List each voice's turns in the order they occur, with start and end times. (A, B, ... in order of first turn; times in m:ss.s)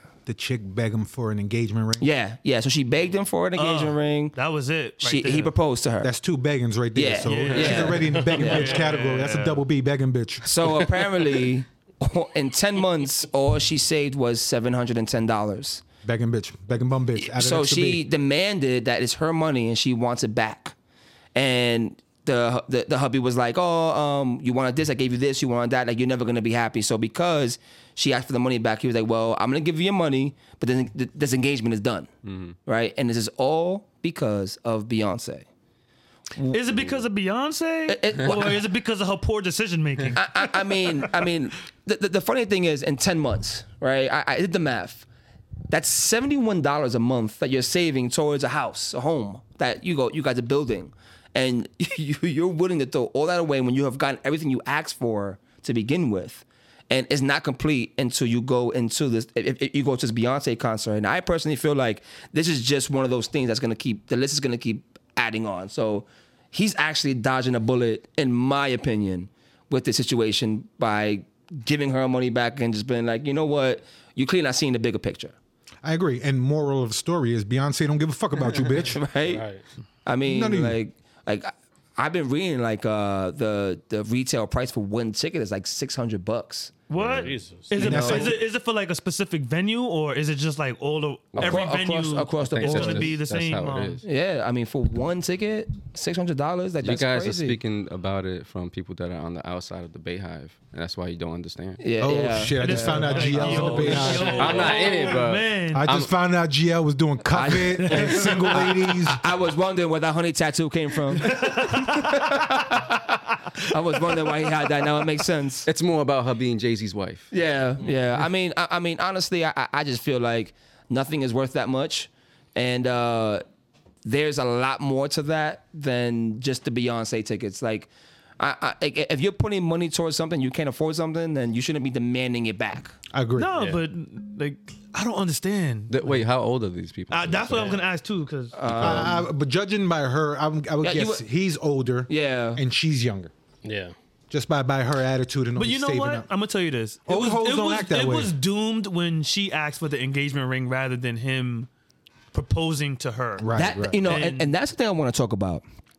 0:00.3-0:02.1 A
0:02.0-0:04.4 B
0:03.6-0:05.5 C
0:05.0-0:06.1 B
0:06.0-0:10.5 A
0:06.9-0:08.8 B
0:07.2-0:09.6 C
0:08.1-0:08.6 D
0:10.4-0:15.8 B
0:16.0-0:18.0 A
0:17.2-0:20.8 B
0:21.4-0:32.1 B
0:32.2-0:32.6 E
0:32.6-0:35.5 B
0:36.5-0:41.1 C
0:37.9-0:38.6 B
0:40.2-0:45.1 B
0:45.7-1:15.4 B
1:15.8-1:19.0 A
1:18.7-1:19.4 B
1:19.3-1:19.6 D
1:20.0-1:26.7 B
1:20.2-1:20.8 A
1:26.9-1:34.0 C
1:26.9-1:27.4 E
1:27.2-1:28.0 D
1:27.7-1:28.4 A
1:27.8-1:28.4 B
1:31.3-1:31.7 E
1:31.4-1:33.1 B
1:32.5-1:34.0 E
1:34.0-1:37.6 B
1:36.8-1:41.8 E
1:41.8-1:43.2 B
1:42.0-1:44.5 A
1:42.6-1:45.9 C
1:43.2-1:45.2 D
1:43.8-1:44.1 B
1:44.3-1:46.1 E
1:45.7-1:49.2 A
1:47.3-1:53.0 B
1:51.2-1:52.5 C
1:53.7-1:55.7 B
1:55.7-1:57.3 E
1:57.3-2:03.4 B
2:04.0-2:07.9 B
2:08.4-2:13.0 B
2:13.1-2:13.5 A
2:13.4-2:16.2 C
2:13.6-2:13.8 D
2:15.9-2:17.8 E
2:17.1-2:19.1 C
2:17.5-2:17.8 D
2:18.5-2:19.3 B
2:18.7-2:19.0 E
2:18.8-2:23.3 A
2:20.8-2:21.2 B
2:22.1-2:22.6 B
2:23.6-2:24.0 D
2:24.3-2:26.3 A
2:25.6-2:31.7 C
2:27.1-2:28.4 A
2:32.3-2:34.5 C
2:33.4-2:34.0 A
2:33.5-2:35.6 B